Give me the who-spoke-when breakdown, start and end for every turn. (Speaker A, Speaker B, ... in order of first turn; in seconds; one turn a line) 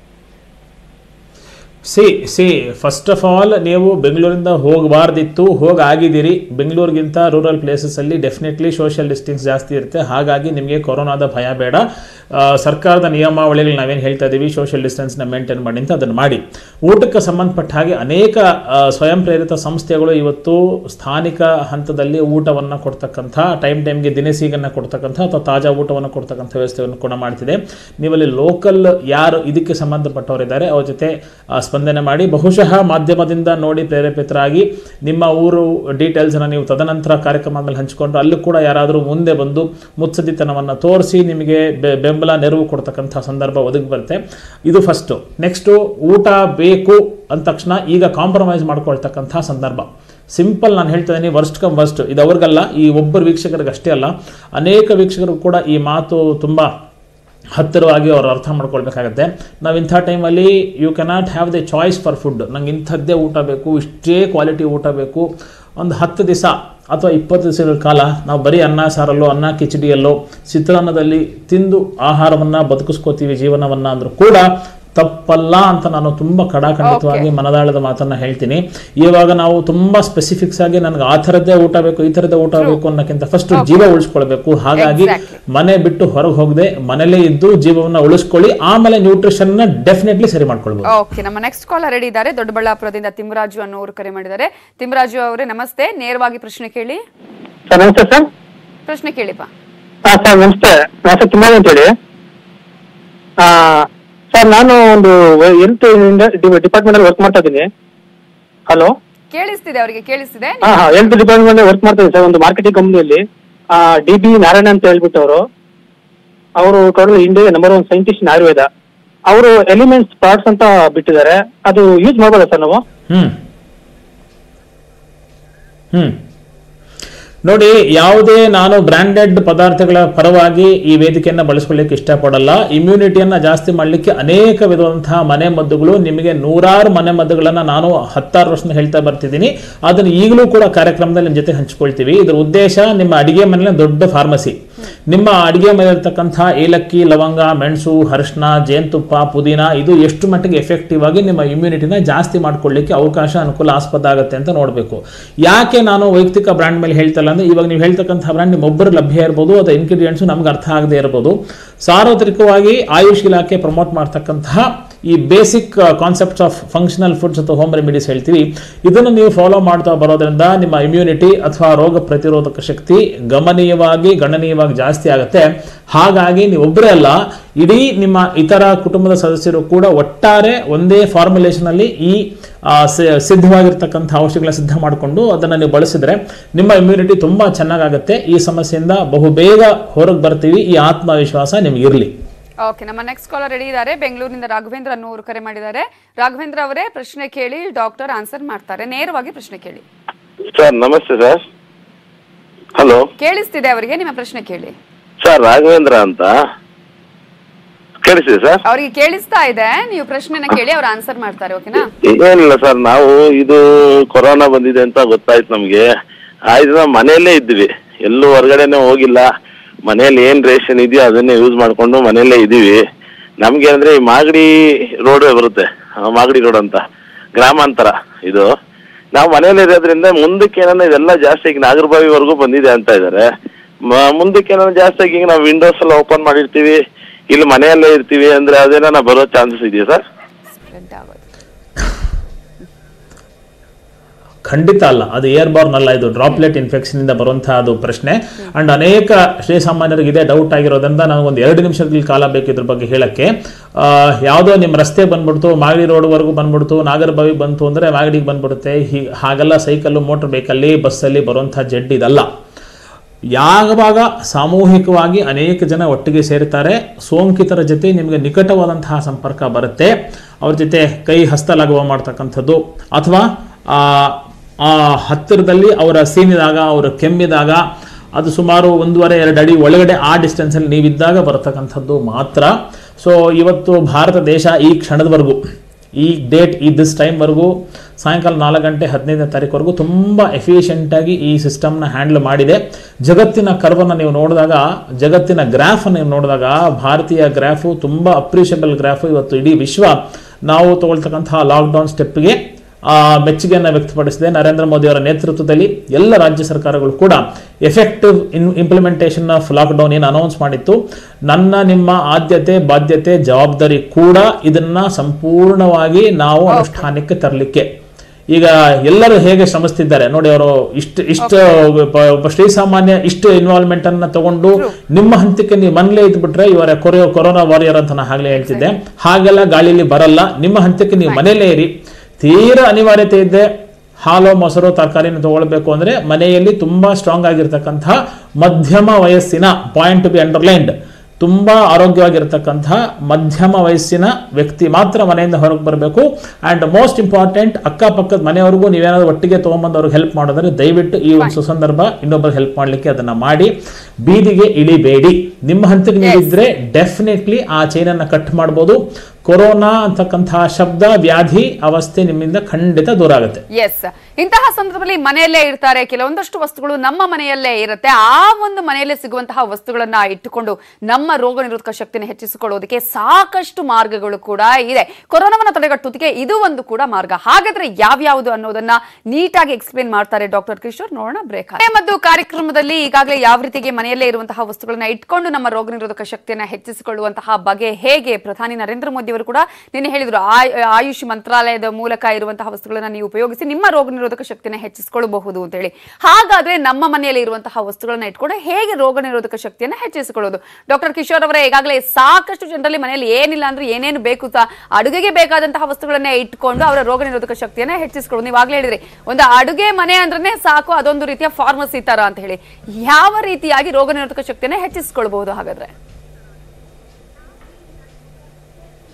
Speaker A: 1.9-56.7
Speaker A: 57.5-65.3
Speaker A: 65.8-90.9
Speaker B: 76.8-77.3
Speaker B: 83.5-83.8
Speaker B: 84.8-85.4
Speaker B: 90.9-97.0
Speaker C: 97.7-98.3
Speaker B: 98.9-99.5
Speaker C: 100.1-101.9
Speaker C: 103.4-107.7
Speaker C: 108.7-108.9
Speaker B: 109.3-111.2
Speaker C: 110.6-115.4
Speaker C: 116.6-118.7
Speaker C: 119.3-122.8
Speaker A: 123.1-123.4
Speaker A: 125.9-126.2
Speaker A: 127.4-192.1
Speaker B: 192.6-199.8
Speaker D: 200.5-201.4
Speaker D: 202.8-203.1
Speaker B: 203.2-204.8
Speaker D: 205.2-206.3
Speaker D: 208.0-208.6
Speaker B: 208.7-211.9
Speaker D: 212.0-213.6
Speaker D: 214.1-215.8
Speaker D: 216.5-219.2
Speaker D: 219.9-222.8
Speaker D: 223.4-224.5
Speaker D: 225.0-226.8
Speaker D: 227.4-228.5
Speaker D: 229.1-233.3
Speaker D: 233.9-236.8
Speaker D: 237.3-240.0
Speaker B: 240.5-241.2
Speaker A: 244.4-262.3
Speaker A: 263.3-277.6
Speaker A: 278.1-285.4
Speaker A: 286.0-310.8
Speaker A: 311.3-317.7
Speaker B: 316.5-316.9
Speaker A: 318.3-333.5
Speaker B: 328.4-328.7
Speaker A: 334.0-363.4
Speaker B: 356.0-356.3
Speaker B: 363.6-415.7